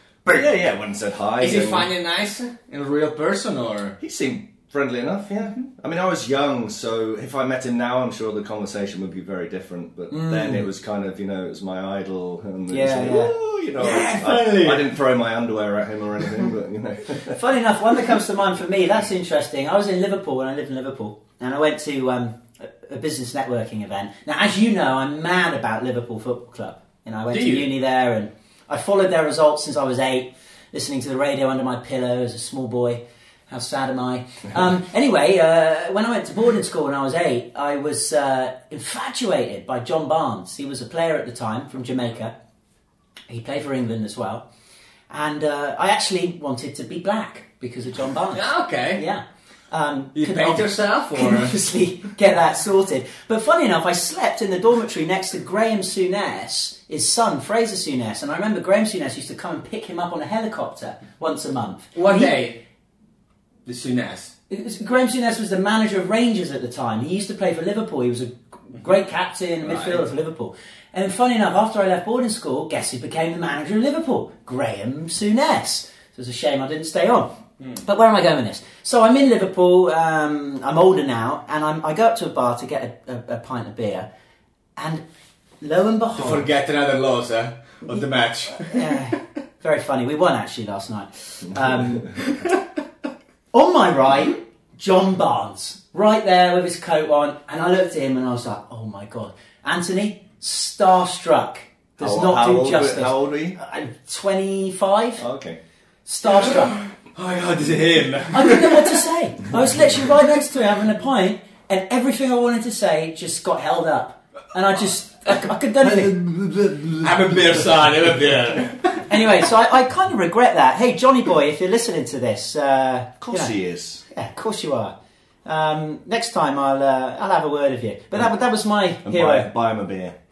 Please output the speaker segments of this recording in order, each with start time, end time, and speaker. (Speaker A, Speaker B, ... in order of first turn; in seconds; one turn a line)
Speaker A: 0.2-1.9
Speaker B: 1.4-4.0
Speaker A: 4.0-17.4
Speaker C: 10.1-10.7
Speaker C: 12.7-13.3
Speaker B: 13.8-14.9
Speaker C: 17.3-42.3
Speaker B: 27.3-27.7
Speaker C: 43.3-44.4
Speaker C: 45.1-62.4
Speaker B: 48.3-49.0
Speaker B: 50.1-51.5
Speaker B: 61.9-62.6
Speaker B: 63.6-64.3
Speaker C: 64.5-77.3
Speaker B: 69.6-70.0
Speaker C: 77.8-84.1
Speaker C: 84.8-85.0
Speaker C: 85.6-86.5
Speaker B: 86.2-89.0
Speaker C: 88.6-92.2
Speaker B: 92.2-92.6
Speaker C: 93.5-105.2
Speaker A: 102.0-103.6
Speaker A: 105.2-105.6
Speaker C: 106.0-106.8
Speaker B: 107.1-109.0
Speaker C: 108.3-116.2
Speaker A: 115.8-117.9
Speaker B: 117.0-119.1
Speaker C: 119.1-123.5
Speaker A: 123.2-124.0
Speaker C: 124.1-124.9
Speaker C: 125.4-129.5
Speaker A: 129.0-130.1